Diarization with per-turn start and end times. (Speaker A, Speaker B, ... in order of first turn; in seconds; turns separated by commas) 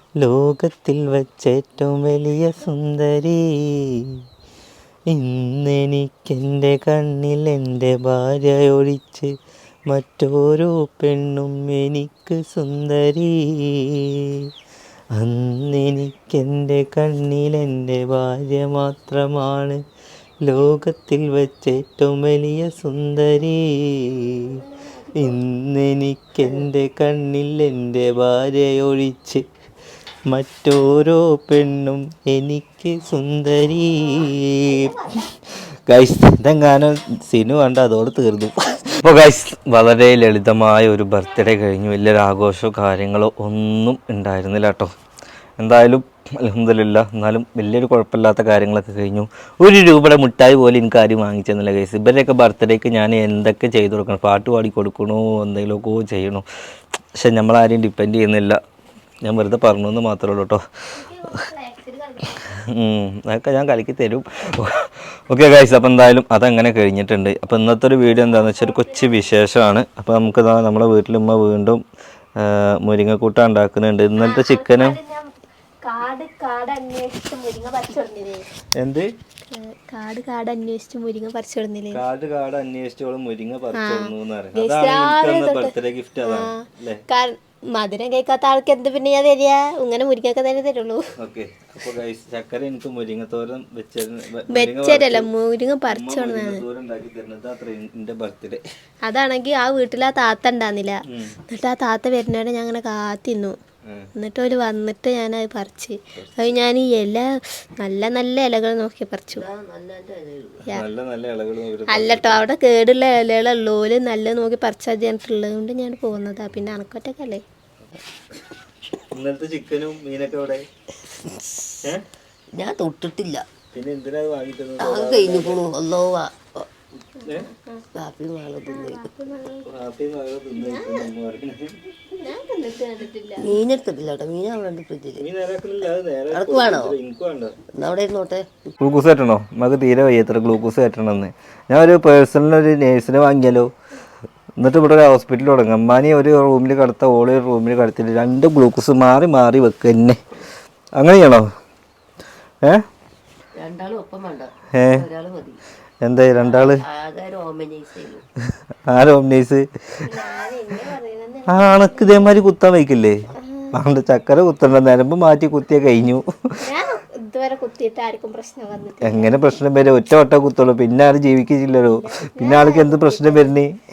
Speaker A: 0.2-4.1, Speaker A: 5.1-9.4, Speaker A: 9.9-14.5, Speaker A: 15.2-19.8, Speaker A: 20.4-24.5, Speaker B: 24.5-25.2, Speaker A: 25.1-29.5, Speaker A: 30.3-34.9, Speaker B: 34.2-35.2, Speaker A: 35.9-44.9, Speaker A: 45.6-56.5, Speaker A: 57.2-58.6, Speaker A: 59.2-60.6, Speaker B: 61.0-62.5, Speaker A: 62.7-71.8, Speaker B: 68.1-69.2, Speaker A: 72.4-75.0, Speaker B: 74.2-75.3, Speaker B: 75.8-78.5, Speaker A: 78.8-79.1, Speaker B: 79.5-82.0, Speaker A: 81.9-87.0, Speaker B: 83.7-85.7, Speaker B: 86.2-91.0, Speaker A: 91.2-95.3, Speaker B: 94.5-96.6, Speaker A: 95.9-98.6, Speaker B: 99.0-103.5, Speaker A: 101.1-101.4, Speaker A: 103.8-104.1, Speaker B: 104.2-107.3, Speaker A: 106.2-106.6, Speaker B: 107.8-109.5, Speaker C: 109.3-110.6, Speaker A: 110.7-112.5, Speaker B: 111.9-117.4, Speaker A: 119.1-120.7, Speaker C: 122.5-123.4, Speaker A: 123.7-125.6, Speaker C: 124.8-126.7, Speaker B: 127.2-127.8, Speaker C: 128.0-129.1, Speaker B: 128.7-129.7, Speaker A: 129.7-131.8, Speaker B: 130.6-131.1, Speaker B: 132.1-133.5, Speaker C: 133.4-135.2, Speaker A: 135.2-137.6, Speaker C: 136.3-136.9, Speaker C: 137.8-138.7, Speaker A: 138.8-143.7, Speaker A: 144.6-150.2, Speaker A: 151.0-151.5, Speaker C: 153.6-155.6, Speaker A: 154.7-155.0, Speaker A: 156.0-156.8, Speaker C: 156.4-158.2, Speaker A: 158.9-159.7, Speaker B: 160.1-162.4, Speaker A: 161.5-163.2, Speaker B: 163.4-163.7, Speaker A: 163.7-166.3, Speaker B: 166.6-169.6, Speaker A: 169.0-173.8, Speaker B: 171.8-173.5